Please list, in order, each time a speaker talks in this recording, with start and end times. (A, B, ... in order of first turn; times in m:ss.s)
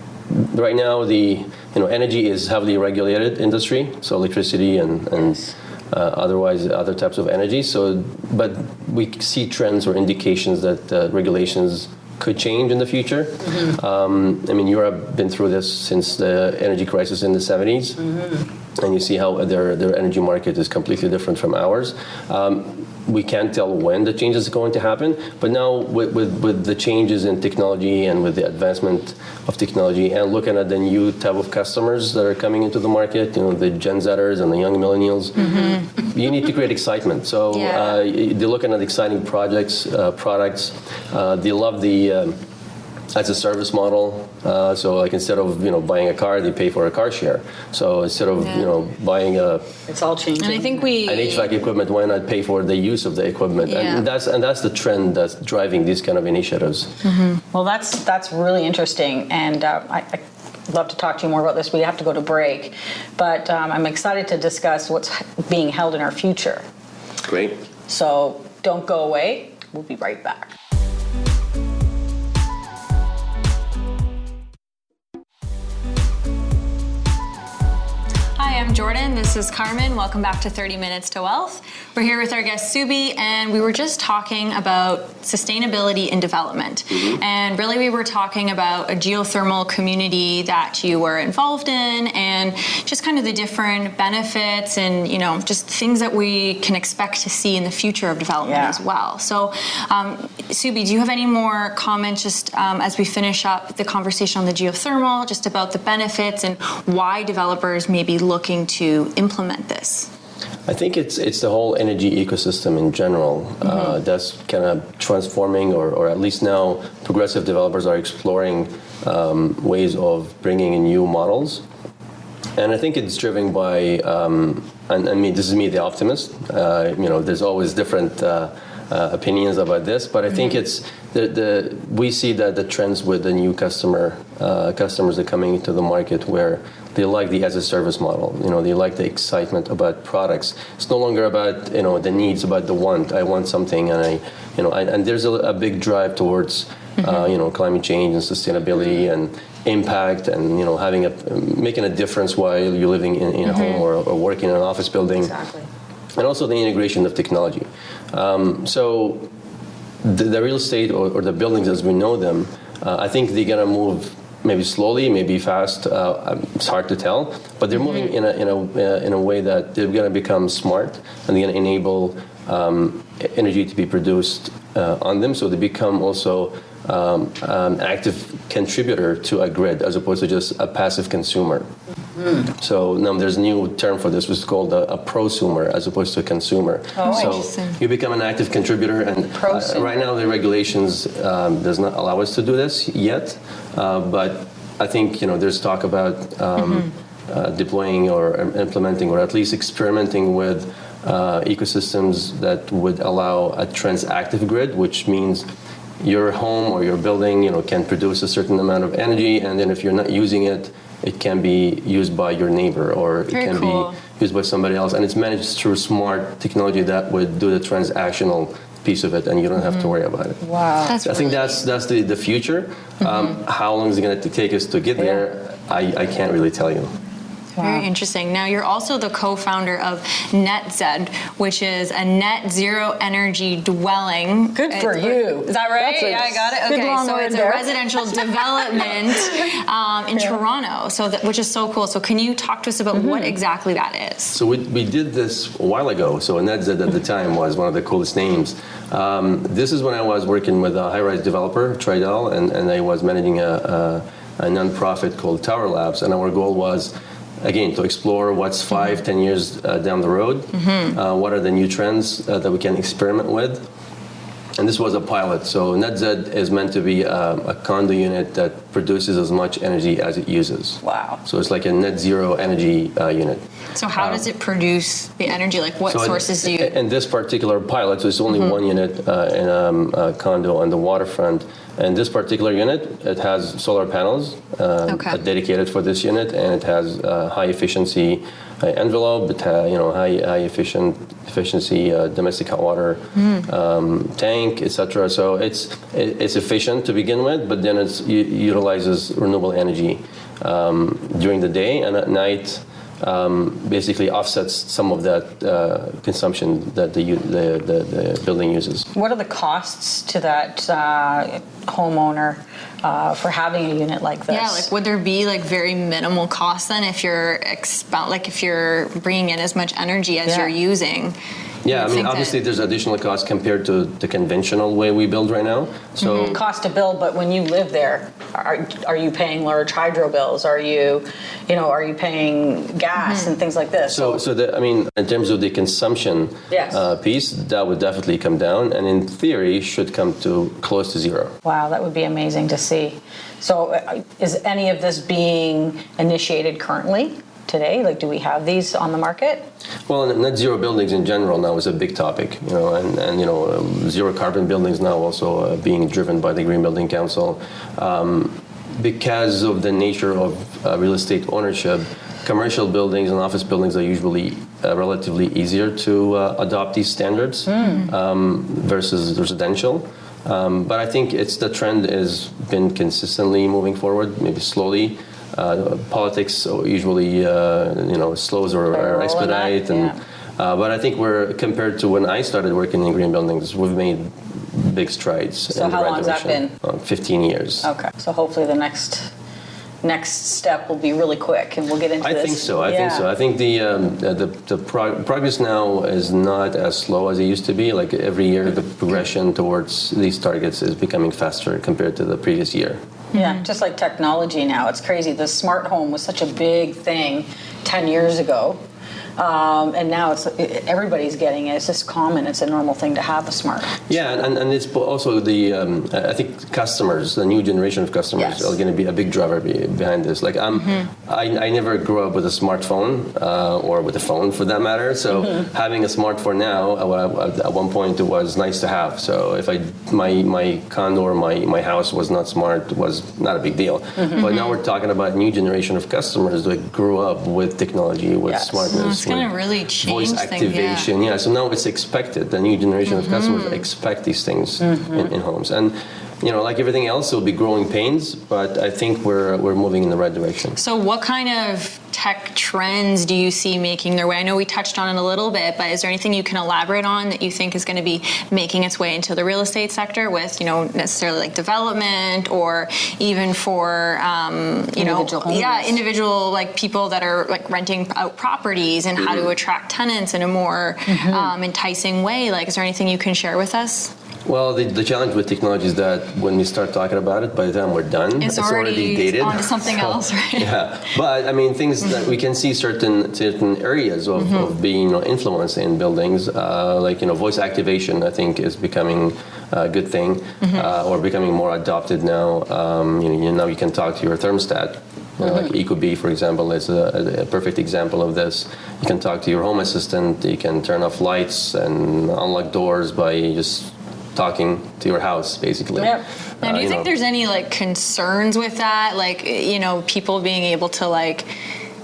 0:00.3-0:18.0 A
0:18.8-0:42.4 A
0:35.4-0:35.8 B
0:37.5-0:38.0 B
0:43.1-0:49.7 A
0:49.9-0:50.9 C
0:50.4-0:51.5 B
0:51.0-0:57.0 A
0:53.6-0:54.0 B
0:57.0-0:57.4 B
0:57.5-1:06.6 C
1:07.2-1:07.6 A
1:07.9-1:10.5 C
1:18.4-1:50.1 B
1:26.9-1:27.2 A
1:38.4-1:38.8 C
1:50.7-2:01.6 A
2:02.6-2:35.3 A
2:35.2-2:35.6 C
2:36.1-2:39.3 A
2:40.0-3:01.7 A
3:02.2-3:02.4 C
3:02.5-3:25.4 A
3:06.9-3:07.4 C
3:07.0-3:07.8 B
3:09.3-3:10.0 C
3:26.0-3:40.4 A
3:33.3-3:34.0 B
3:40.4-3:40.9 C
3:40.9-3:41.6 B
3:41.0-3:46.9 A
3:47.6-3:47.8 C
3:47.6-4:04.4 B
3:54.5-3:59.4 C
4:02.9-4:03.4 C
4:04.3-4:23.6 A
4:24.6-4:33.4 A
4:30.8-4:31.2 C
4:33.7-4:36.7 B
4:34.0-4:34.2 A
4:35.9-5:08.9 A
4:44.9-4:45.2 B
4:53.2-4:53.5 B
5:08.9-5:14.7 C
5:14.3-5:21.2 B
5:20.2-5:20.5 C
5:21.6-5:26.4 A
5:21.7-5:22.4 B
5:26.0-5:26.4 B
5:26.2-5:34.2 C
5:33.9-5:41.4 A
5:36.5-5:36.8 C
5:41.4-5:49.5 C
5:49.9-6:27.7 A
6:07.5-6:07.9 C
6:18.7-6:20.0 C
6:25.5-6:26.5 C
6:27.6-6:29.1 C
6:29.8-6:33.0 C
6:32.0-6:42.8 A
6:43.1-6:48.6 C
6:43.1-6:43.4 B
6:49.2-6:54.0 C
6:53.9-7:30.6 A
6:58.2-6:58.5 C
7:14.0-7:14.2 C
7:14.2-7:14.5 B
7:18.3-7:18.7 C
7:18.7-7:20.9 B
7:22.9-7:23.6 B
7:24.6-7:25.0 C
7:30.6-7:53.9 B
7:44.8-7:45.8 C
7:49.0-7:49.3 A
7:50.9-7:51.3 C
7:54.2-8:26.9 A
7:58.2-8:00.6 B
8:25.8-8:26.0 C
8:26.4-8:31.3 B